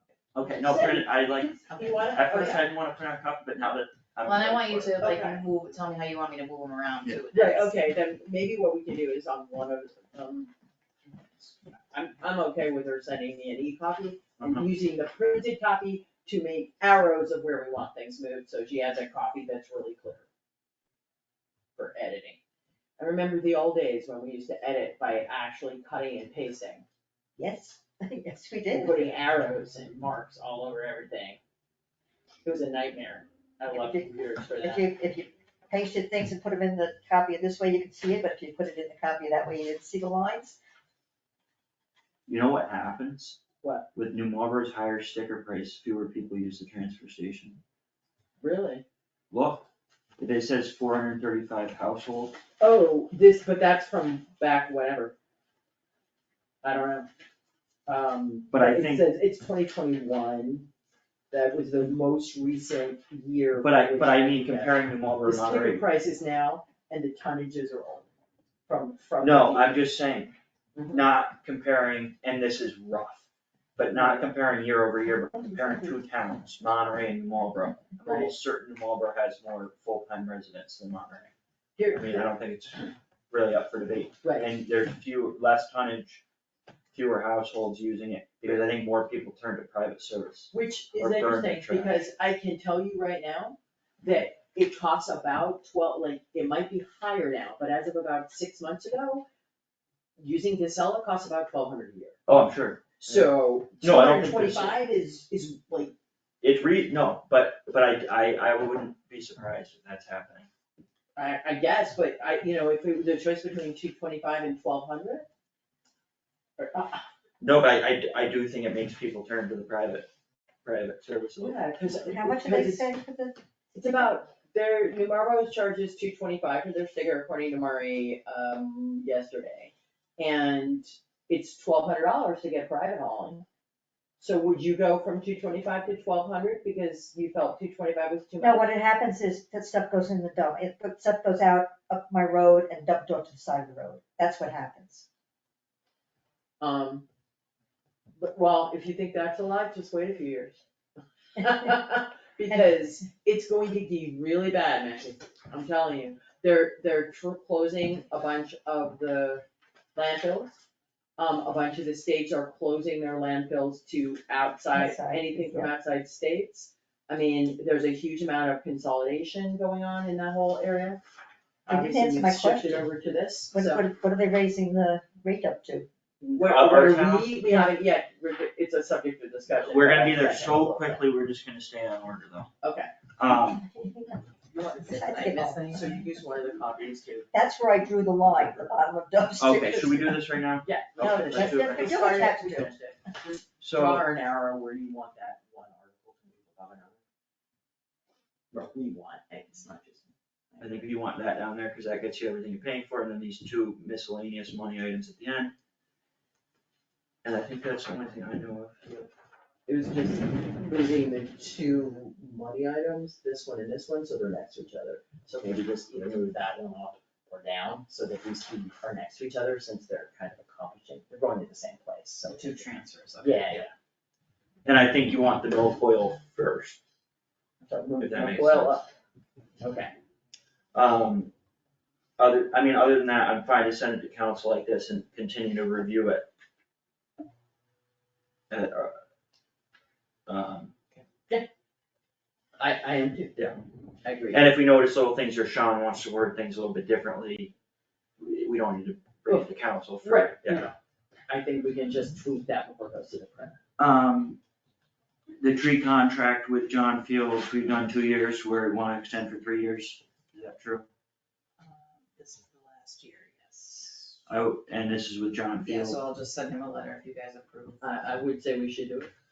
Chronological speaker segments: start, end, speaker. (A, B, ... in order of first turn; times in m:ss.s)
0:00.3-0:05.0 A
0:00.5-0:02.7 B
0:04.2-0:07.7 C
0:05.0-0:05.4 B
0:07.3-0:10.5 B
0:11.4-0:20.2 B
0:14.4-0:14.6 A
0:21.8-0:22.4 B
0:23.0-0:26.8 B
0:27.4-0:29.1 D
0:28.7-0:31.4 B
0:32.4-0:34.8 B
0:33.7-0:40.6 D
0:42.3-0:43.4 A
0:43.6-0:43.8 B
0:43.9-0:47.6 A
0:48.4-0:48.8 B
0:49.3-0:49.6 A
0:50.2-0:52.4 A
0:52.6-0:55.1 B
0:56.6-0:57.1 B
0:57.8-1:00.7 B
0:58.5-0:59.0 A
1:01.3-1:08.1 B
1:03.6-1:05.8 A
1:08.7-1:09.8 B
1:09.2-1:10.3 A
1:10.7-1:11.0 B
1:10.9-1:21.3 A
1:13.9-1:14.3 B
1:18.0-1:18.3 B
1:21.8-1:22.2 B
1:21.9-1:26.2 A
1:24.2-1:24.5 B
1:26.9-1:32.0 A
1:30.5-1:39.2 B
1:40.2-1:42.2 B
1:42.3-1:44.8 A
1:43.0-1:45.9 B
1:46.4-1:50.5 A
1:51.2-1:55.2 B
1:56.6-1:57.0 B
1:57.4-2:00.1 A
2:00.6-2:01.7 A
2:01.4-2:02.9 B
2:01.8-2:03.4 D
2:03.7-2:13.4 B
2:14.2-2:18.7 B
2:18.4-2:25.0 D
2:26.6-2:27.0 B
2:28.2-2:30.6 B
2:31.4-2:39.4 B
2:39.9-2:40.6 B
2:41.2-2:51.0 B
2:44.7-2:45.7 D
2:51.6-2:53.8 B
2:51.7-2:52.9 D
2:53.5-2:55.9 D
2:56.2-3:01.0 B
2:56.3-2:57.3 A
2:59.6-3:02.5 A
3:02.6-3:02.9 B
3:03.2-3:03.6 A
3:03.5-3:05.8 D
3:04.9-3:05.8 C
3:05.0-3:07.3 B
3:07.3-3:10.2 D
3:09.4-3:12.3 A
3:10.6-3:17.0 B
3:11.0-3:12.7 D
3:13.6-3:14.0 A
3:18.5-3:20.9 B
3:20.6-3:25.5 A
3:27.2-3:29.1 A
3:29.7-3:42.6 B
3:42.3-3:43.6 C
3:43.2-3:43.7 B
3:44.6-3:46.8 A
3:47.6-3:48.9 B
3:48.0-3:48.8 A
3:49.6-3:49.9 B
3:50.7-3:51.3 A
3:52.2-3:56.3 A
3:58.5-3:59.0 A
4:00.3-4:00.7 A
4:02.6-4:03.4 B
4:04.0-4:04.4 B
4:04.3-4:07.5 A
4:08.2-4:10.7 A
4:10.0-4:10.7 B
4:11.3-4:13.6 B
4:13.8-4:14.4 A
4:15.4-4:20.8 A
4:21.6-4:24.2 C
4:24.3-4:26.0 A
4:25.6-4:28.0 C
4:27.8-4:29.1 B